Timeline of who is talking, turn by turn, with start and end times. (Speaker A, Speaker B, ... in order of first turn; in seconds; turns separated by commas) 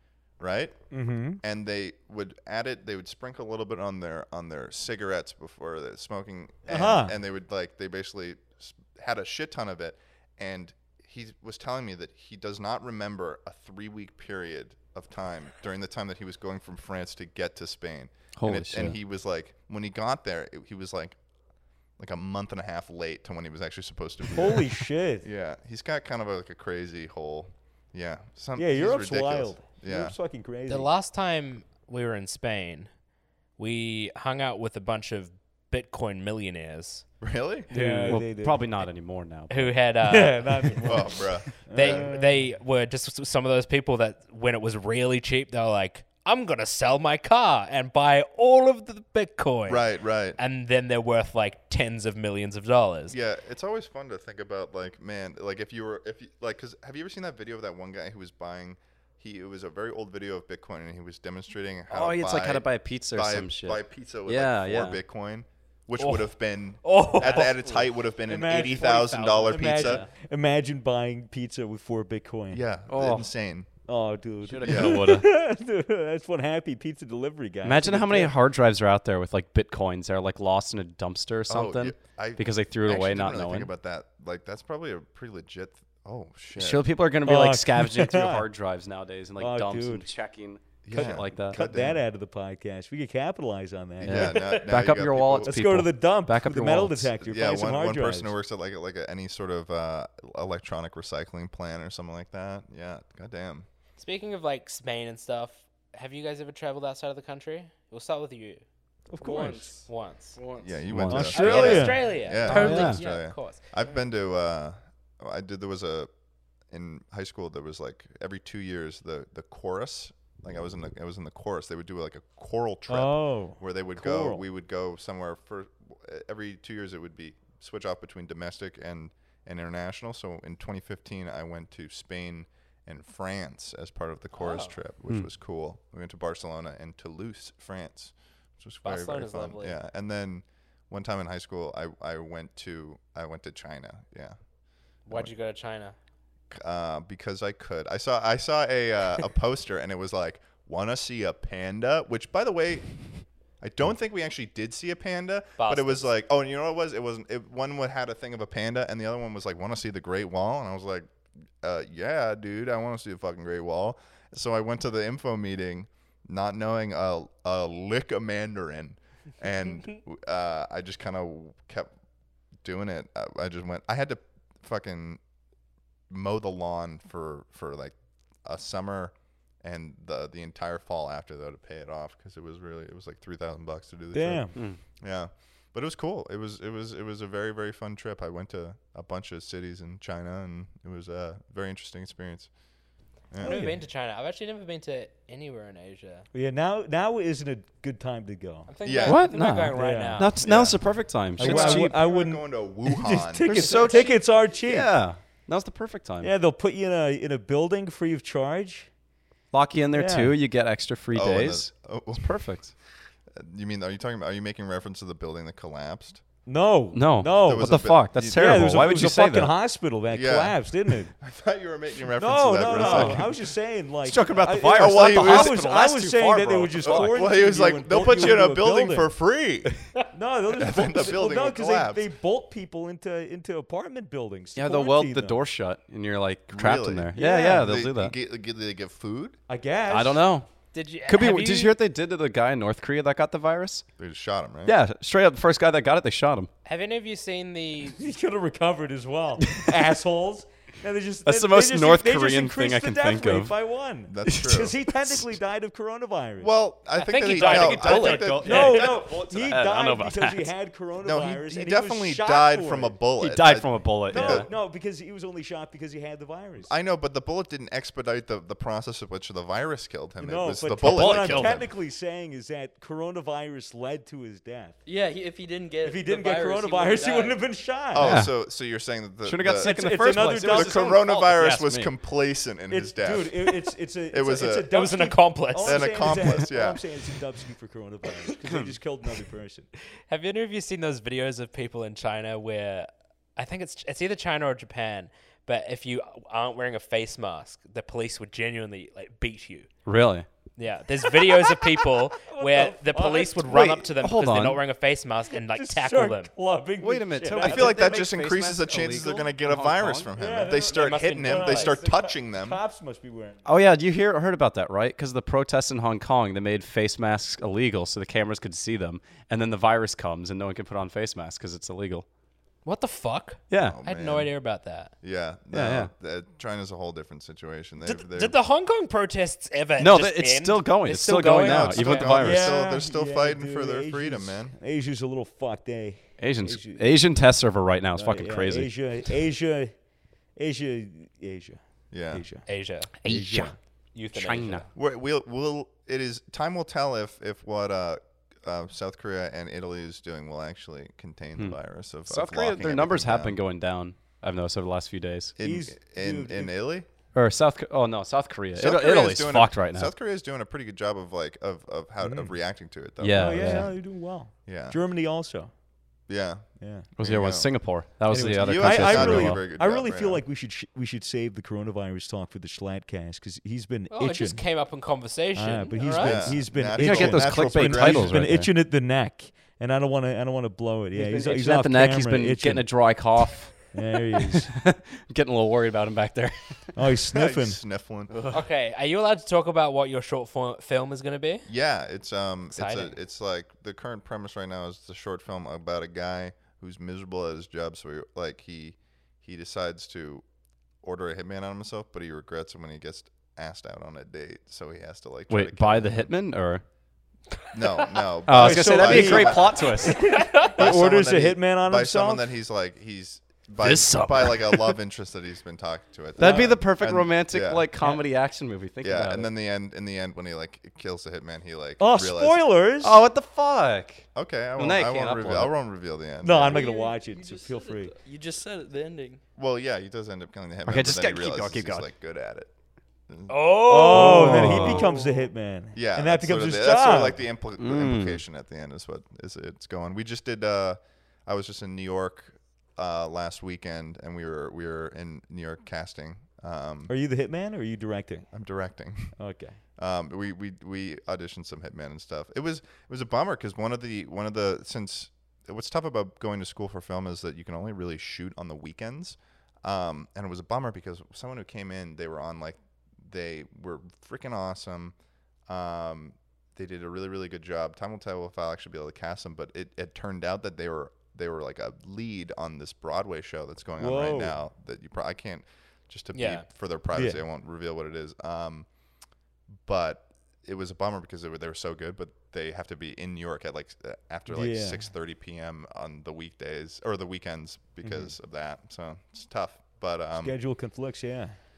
Speaker A: 0.4-0.8, Speaker B: 0.9-1.4, Speaker A: 1.4-21.2, Speaker B: 6.7-7.2, Speaker C: 18.4-19.0, Speaker A: 22.0-30.1, Speaker B: 24.3-25.2, Speaker B: 28.6-30.9, Speaker D: 30.7-32.9, Speaker D: 33.6-37.0, Speaker A: 37.2-37.7, Speaker B: 37.7-38.6, Speaker C: 37.7-39.8, Speaker D: 39.5-41.1, Speaker B: 40.0-42.4, Speaker A: 40.8-42.1, Speaker D: 41.7-53.2, Speaker A: 49.7-50.4, Speaker A: 53.1-70.0, Speaker C: 61.9-65.0, Speaker D: 66.0-67.9, Speaker B: 68.3-72.7, Speaker D: 68.5-70.1, Speaker A: 72.5-73.7, Speaker C: 72.9-73.3, Speaker B: 73.9-78.3, Speaker C: 74.5-75.3, Speaker A: 74.6-75.2, Speaker C: 77.6-83.7, Speaker A: 81.5-86.9, Speaker C: 86.5-91.6, Speaker B: 87.2-88.5, Speaker B: 89.4-90.1, Speaker A: 90.8-92.0, Speaker B: 90.9-94.7, Speaker A: 94.0-95.6, Speaker C: 94.0-97.1, Speaker B: 95.5-98.3, Speaker A: 97.2-103.7, Speaker D: 104.0-108.6, Speaker B: 109.1-109.7, Speaker E: 109.2-111.6, Speaker D: 109.9-110.4, Speaker A: 110.6-116.1, Speaker C: 110.9-111.3, Speaker B: 111.0-112.7, Speaker D: 111.2-113.6, Speaker C: 112.4-113.0, Speaker E: 112.6-113.0, Speaker A: 116.7-144.4, Speaker B: 122.9-124.4, Speaker D: 134.4-134.7, Speaker D: 138.8-139.8, Speaker D: 145.1-145.9, Speaker A: 146.5-153.0, Speaker A: 153.6-161.1, Speaker D: 155.6-156.1, Speaker A: 161.6-171.9, Speaker A: 172.6-175.2, Speaker A: 176.1-192.5, Speaker B: 184.1-184.5, Speaker C: 184.5-184.8, Speaker A: 193.3-193.6, Speaker D: 193.4-196.3, Speaker B: 193.4-193.8, Speaker B: 196.3-198.7, Speaker D: 198.7-200.5, Speaker A: 198.8-199.3, Speaker C: 199.0-202.0, Speaker B: 199.7-200.3, Speaker A: 200.4-200.8, Speaker A: 201.4-203.5, Speaker B: 201.4-204.9, Speaker C: 203.4-206.3, Speaker D: 203.6-204.2, Speaker B: 206.2-208.9, Speaker C: 209.5-212.7, Speaker B: 209.9-210.4, Speaker A: 211.1-212.4, Speaker A: 213.4-216.2, Speaker B: 216.5-221.1, Speaker C: 216.9-219.5, Speaker A: 217.3-218.7, Speaker A: 220.1-223.3, Speaker B: 222.2-229.1, Speaker C: 222.7-223.3, Speaker C: 224.1-227.2, Speaker A: 224.7-225.7, Speaker A: 226.8-229.7, Speaker B: 230.1-235.4, Speaker A: 230.5-232.1, Speaker C: 234.6-238.2, Speaker A: 236.5-239.4, Speaker B: 237.2-237.7, Speaker B: 239.5-240.3, Speaker C: 239.9-240.5, Speaker D: 240.7-241.7, Speaker C: 241.1-243.8, Speaker A: 244.0-244.8, Speaker C: 244.7-246.5, Speaker D: 246.7-248.0, Speaker B: 247.9-256.5, Speaker C: 251.3-253.5, Speaker A: 254.1-254.8, Speaker A: 256.4-259.2, Speaker D: 256.9-258.6, Speaker C: 257.3-260.5, Speaker B: 258.4-263.1, Speaker A: 261.0-264.5, Speaker C: 263.2-264.5, Speaker B: 264.1-266.8, Speaker A: 266.6-271.7, Speaker B: 270.2-274.8, Speaker C: 270.8-271.6, Speaker E: 274.9-277.5, Speaker B: 275.8-278.2, Speaker A: 277.9-283.6, Speaker C: 278.0-278.4, Speaker C: 279.2-281.9, Speaker B: 279.6-281.0, Speaker B: 282.7-289.7, Speaker A: 284.1-284.7, Speaker D: 284.7-286.2, Speaker A: 285.6-286.8, Speaker D: 290.1-299.7, Speaker C: 299.9-300.3, Speaker D: 300.6-306.3, Speaker B: 301.1-303.9, Speaker C: 303.5-304.6, Speaker B: 305.3-308.1, Speaker C: 306.8-310.1, Speaker A: 307.4-312.6, Speaker B: 310.2-313.4, Speaker D: 310.5-311.8, Speaker C: 313.4-322.1, Speaker D: 322.6-324.9, Speaker C: 323.5-323.8, Speaker A: 323.6-324.3, Speaker A: 325.0-328.4, Speaker C: 325.5-325.9, Speaker D: 327.8-332.2, Speaker C: 329.8-332.7, Speaker A: 331.4-334.6, Speaker B: 332.2-337.0, Speaker C: 336.2-338.7, Speaker B: 338.0-339.8, Speaker B: 340.4-342.5, Speaker A: 341.9-342.3, Speaker D: 342.5-344.7, Speaker C: 343.0-343.5, Speaker B: 343.1-343.6, Speaker C: 344.1-344.7, Speaker A: 344.7-353.4, Speaker C: 351.4-355.4, Speaker A: 355.4-356.9, Speaker B: 355.4-356.5, Speaker C: 357.1-359.9, Speaker A: 358.6-363.9, Speaker B: 362.0-362.3, Speaker C: 363.0-363.7, Speaker B: 363.1-365.5, Speaker A: 364.5-364.8, Speaker A: 366.1-366.5, Speaker B: 366.6-366.9, Speaker C: 367.0-369.5, Speaker A: 367.0-370.2, Speaker B: 368.1-374.4, Speaker D: 373.9-376.4, Speaker B: 375.4-384.5, Speaker A: 375.9-378.3, Speaker C: 376.6-378.5, Speaker C: 380.9-386.8, Speaker B: 386.8-387.6, Speaker A: 387.1-388.2, Speaker C: 388.1-388.4, Speaker D: 388.3-391.5, Speaker A: 391.5-400.2, Speaker D: 392.5-392.9, Speaker A: 400.8-406.1, Speaker C: 405.3-406.6, Speaker A: 407.5-409.6, Speaker C: 408.3-410.2, Speaker B: 408.3-412.2, Speaker D: 409.8-410.6, Speaker A: 410.4-417.7, Speaker C: 413.6-414.8, Speaker C: 416.2-419.3, Speaker B: 416.2-416.6, Speaker A: 418.8-422.4, Speaker B: 421.8-423.0, Speaker C: 422.8-425.6, Speaker A: 424.1-426.6, Speaker B: 426.2-427.9, Speaker E: 426.3-429.2, Speaker A: 429.4-432.5, Speaker C: 430.6-431.9, Speaker A: 433.1-434.6, Speaker D: 433.3-434.4, Speaker B: 433.6-437.2, Speaker C: 433.8-434.9, Speaker E: 434.6-435.3, Speaker A: 435.8-446.9, Speaker C: 437.6-438.2, Speaker B: 446.9-448.3, Speaker A: 448.3-449.2, Speaker B: 449.2-449.6, Speaker A: 449.8-464.9, Speaker A: 465.5-478.7, Speaker B: 473.8-474.4, Speaker D: 476.1-476.5, Speaker B: 476.9-477.2, Speaker A: 479.6-490.4, Speaker B: 484.3-484.9, Speaker B: 490.1-491.4